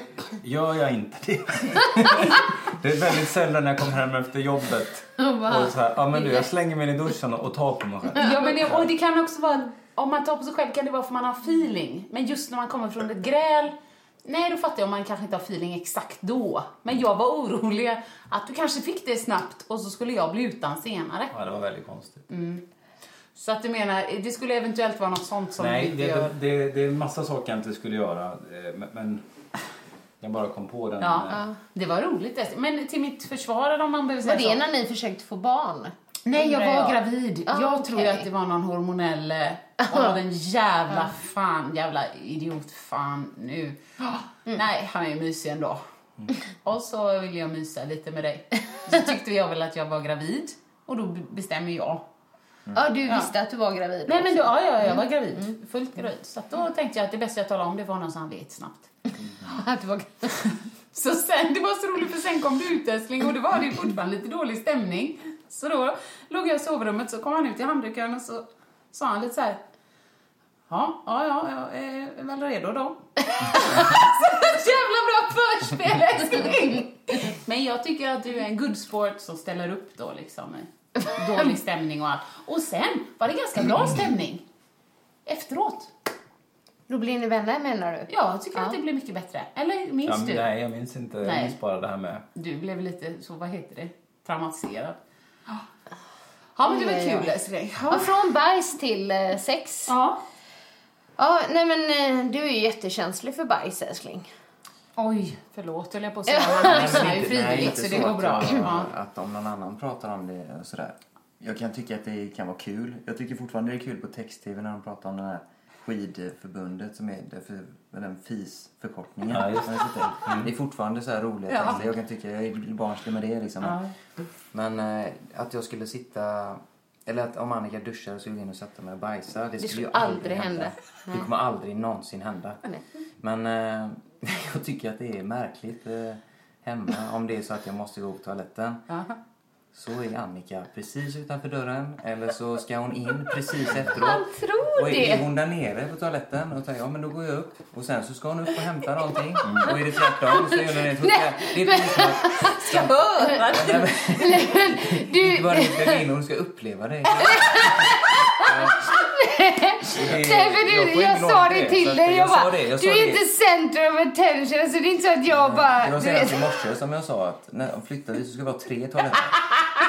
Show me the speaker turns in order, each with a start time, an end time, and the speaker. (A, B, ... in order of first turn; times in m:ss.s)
0:00.4-0:08.9 A
0:05.2-0:06.4 B
0:08.2-0:21.3 C
0:21.3-0:22.2 A
0:22.3-0:22.6 C
0:23.4-0:26.3 C
0:25.6-0:29.2 A
0:30.2-0:31.4 A
0:31.0-0:34.6 C
0:34.2-0:38.2 B
0:36.2-0:43.8 C
0:39.8-0:40.1 B
0:44.5-0:45.8 C
0:46.6-0:52.0 C
0:52.7-0:55.0 B
0:54.0-0:58.9 C
0:59.4-1:00.4 B
1:00.4-1:09.6 C
1:10.7-1:24.4 C
1:25.2-1:25.9 C
1:26.9-1:28.8 B
1:28.1-1:30.5 C
1:30.0-1:32.2 A
1:31.2-1:31.6 C
1:32.3-1:35.0 C
1:36.6-1:38.1 C
1:36.6-1:37.3 B
1:37.9-1:39.9 B
1:39.9-1:40.2 C
1:41.2-1:44.3 B
1:45.0-1:48.9 C
1:46.3-1:47.9 B
1:46.6-2:03.8 D
1:59.3-2:00.5 A
2:01.5-2:01.8 C
2:03.6-2:03.9 C
2:04.5-2:12.6 D
2:09.6-2:11.3 B
2:13.2-2:18.8 D
2:18.9-2:19.2 C
2:19.7-2:38.8 D
2:24.0-2:25.2 B
2:29.4-2:29.7 A
2:30.3-2:32.6 B
2:32.4-2:34.4 C
2:34.2-2:36.0 B
2:37.2-2:46.4 B
2:39.9-2:43.2 D
2:45.3-2:49.5 D